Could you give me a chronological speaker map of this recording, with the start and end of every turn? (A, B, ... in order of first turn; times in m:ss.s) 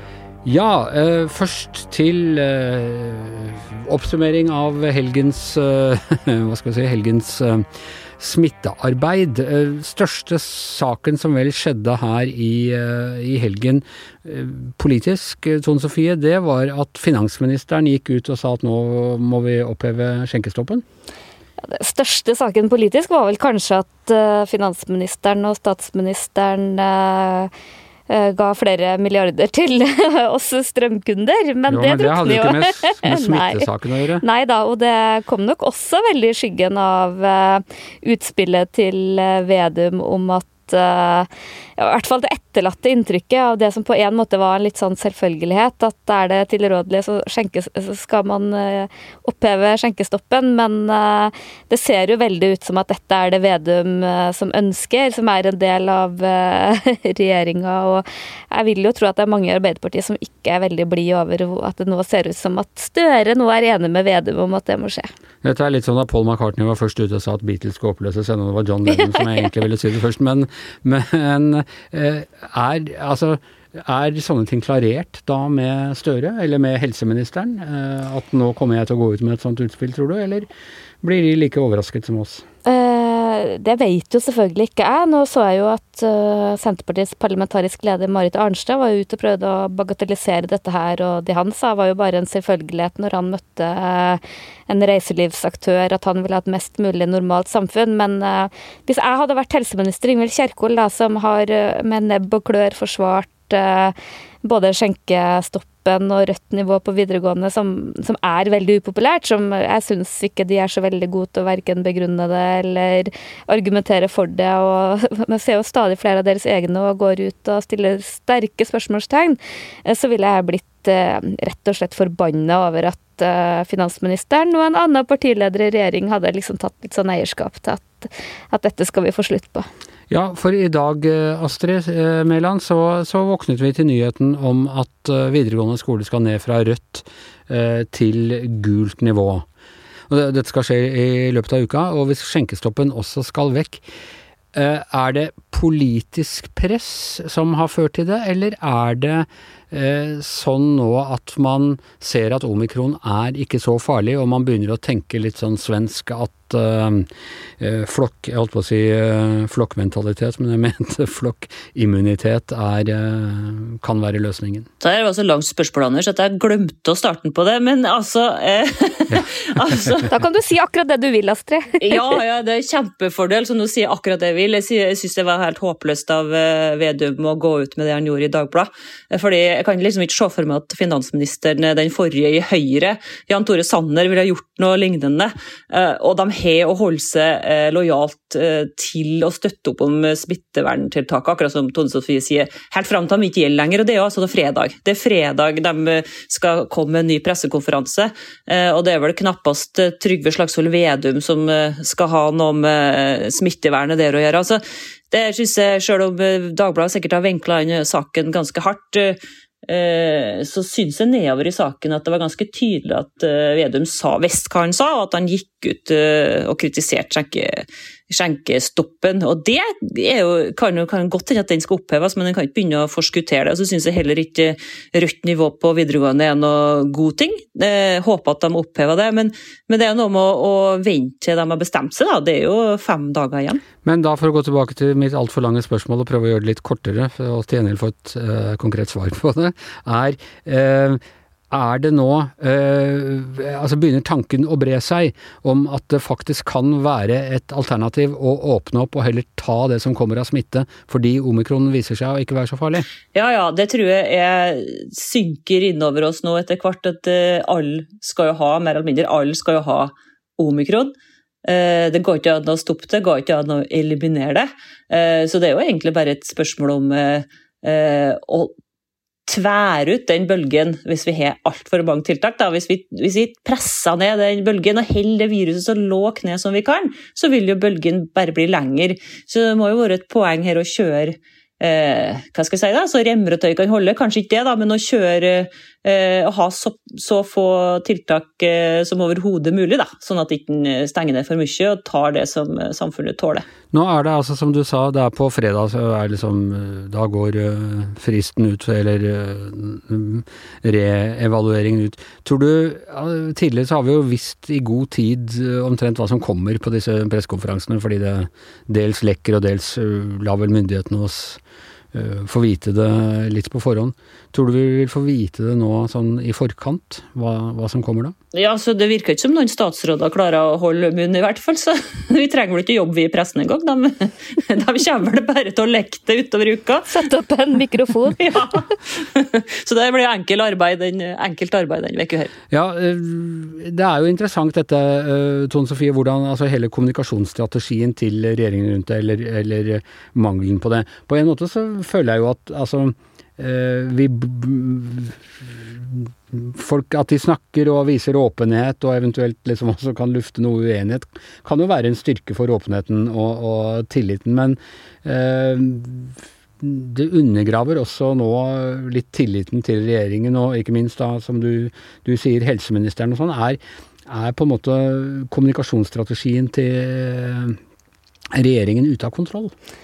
0:00.4-0:07.7 A
0:08.2-0:20.8 A
0:21.7-0:27.5 B
0:28.1-0:33.7 B
0:31.7-0:34.2 A
0:34.2-1:05.1 B
1:05.4-1:20.5 A
1:08.9-1:09.4 B
1:21.0-1:22.4 A
1:22.6-2:09.7 B
2:10.1-2:19.4 A
2:20.1-2:23.8 A
2:24.5-2:37.1 A
2:37.6-2:44.7 A
2:44.8-2:50.1 C
2:50.1-2:52.2 B
2:51.8-3:53.6 C
3:53.8-4:01.0 A
4:01.5-4:12.9 A
4:13.1-4:20.9 C
4:21.4-4:28.5 C
4:29.3-4:53.4 C
4:53.7-5:11.4 A
5:11.9-5:18.1 A
5:18.3-5:26.9 C
5:26.9-5:28.4 B
5:28.2-5:32.3 C
5:32.5-6:07.6 A
6:08.3-6:09.5 A